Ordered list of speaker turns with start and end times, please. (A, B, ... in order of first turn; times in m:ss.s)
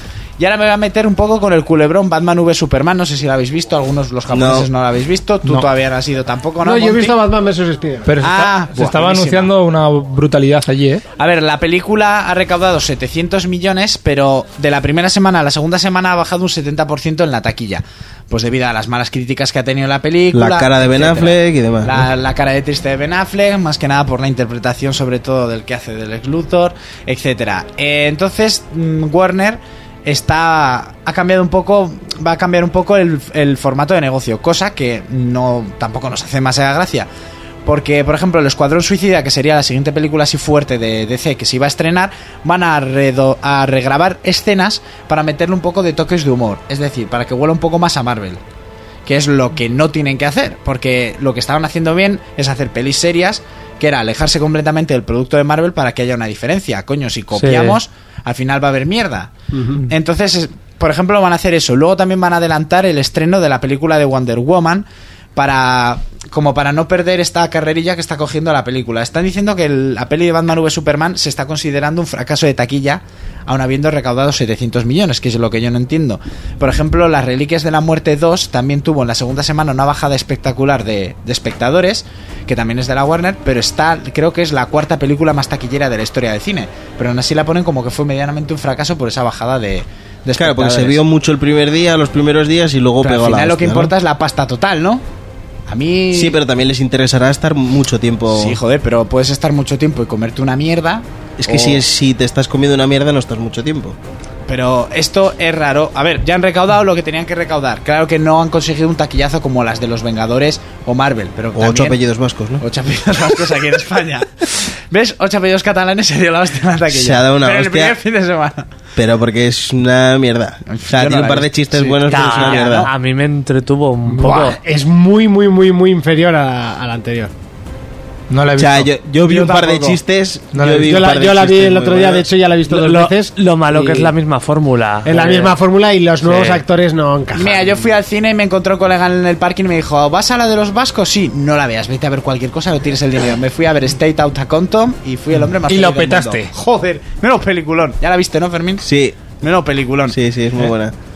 0:00.4-0:07.2 A
0:04.3-0:04.7 B
0:06.6-0:08.1 C
0:08.1-0:11.1 D
0:08.2-0:09.5 A
0:11.2-0:37.1 A
0:20.3-0:22.1 B
0:37.6-0:48.4 A
0:49.1-0:59.3 A
0:57.4-0:57.8 E
0:59.5-0:59.8 C
0:59.9-1:31.0 A
1:30.3-1:33.9 B
1:33.0-1:35.0 A
1:35.7-1:36.4 A
1:36.1-1:38.6 B
1:38.3-1:41.8 A
1:41.4-1:44.0 B
1:44.5-1:52.0 A
1:51.6-1:52.6 B
1:52.6-1:58.7 A
1:56.9-1:58.0 B
1:59.0-2:02.9 B
2:00.7-2:02.9 A
2:02.1-2:04.6 E
2:04.1-2:07.3 C
2:08.3-2:08.9 D
2:08.6-2:12.3 B
2:09.3-2:10.0 A
2:10.5-2:11.0 D
2:10.8-2:14.1 C
2:12.7-2:15.6 E
2:15.0-2:17.8 C
2:16.2-2:16.6 E
2:17.4-2:28.9 A
2:25.7-2:26.5 D
2:28.8-2:29.2 B
2:29.4-2:30.2 A
2:30.1-2:31.0 B